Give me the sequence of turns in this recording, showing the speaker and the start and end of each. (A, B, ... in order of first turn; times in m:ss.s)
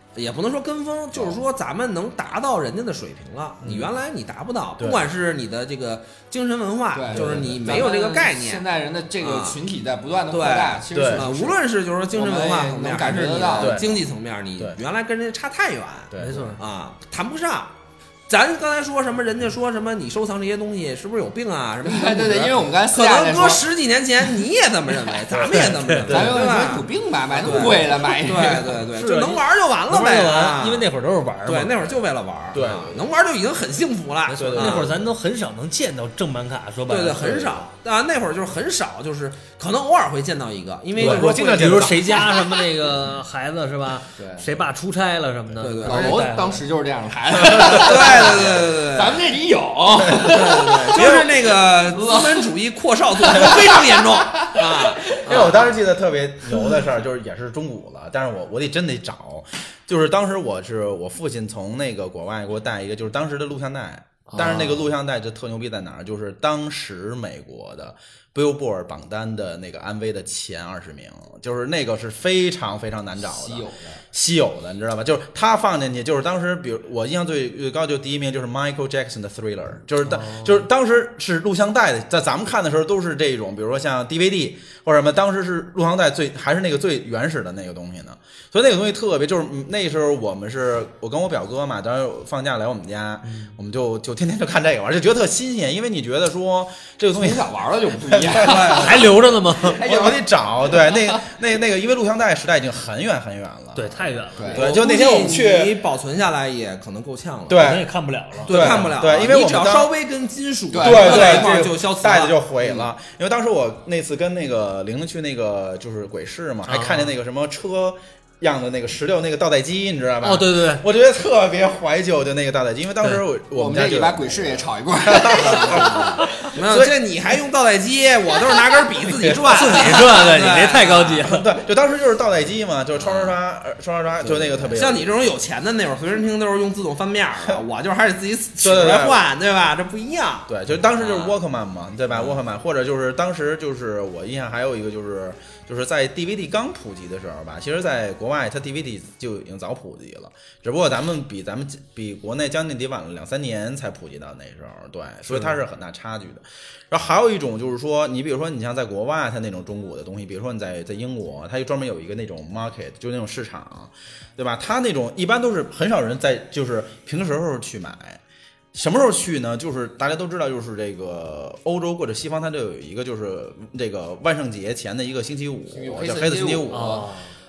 0:00.1-0:08.6 A
0:01.1-0:01.4 B
0:03.6-0:03.9 B
0:06.9-0:11.6 C
0:07.1-0:07.7 B
0:09.2-0:09.6 A
0:10.3-0:17.7 A
0:10.9-0:11.3 B
0:12.1-0:13.8 C
0:13.6-0:14.0 B
0:16.1-0:16.6 B
0:16.2-0:16.6 D
0:18.3-0:30.9 A
0:21.8-0:23.6 C
0:25.3-0:26.6 B
0:25.5-0:26.1 D
0:26.1-0:28.8 C
0:27.4-0:28.0 D
0:28.9-0:31.7 D
0:31.4-0:35.0 A
0:32.5-0:33.0 B
0:34.3-0:37.6 D
0:34.3-0:35.1 B
0:36.9-0:42.2 A
0:41.0-0:42.2 B
0:41.0-0:46.6 D
0:44.2-0:44.5 C
0:45.6-0:46.3 A
0:45.8-0:50.9 C
0:47.4-0:48.7 B
0:47.6-0:49.2 A
0:50.0-0:50.4 B
0:50.2-0:55.7 A
0:50.9-0:51.5 B
0:51.9-0:52.4 C
0:53.2-0:55.2 C
0:55.2-1:45.8 B
1:04.3-1:04.7 C
1:13.2-1:14.0 C
1:20.0-1:20.6 D
1:33.2-1:33.5 D
1:37.1-1:38.8 C
1:38.4-1:39.1 A
1:38.7-1:39.8 D
1:39.6-1:41.2 C
1:43.7-1:44.6 D
1:44.4-1:44.6 C
1:44.6-1:47.7 A
1:47.5-1:49.9 B
1:47.6-1:48.9 D
1:48.4-1:52.8 A
1:50.7-1:51.6 C
1:50.8-2:06.9 B
1:56.7-1:57.1 D
2:00.2-2:00.8 D
2:03.5-2:06.2 C
2:06.5-2:11.3 A
2:09.1-2:09.6 B
2:09.5-2:11.4 D
2:11.2-2:15.1 B
2:13.0-2:13.3 A
2:14.5-2:14.8 C
2:14.7-2:21.3 A
2:18.6-2:19.2 B
2:20.5-2:48.2 B
2:48.7-2:57.1 B
2:55.7-2:57.0 C
2:56.7-2:57.3 D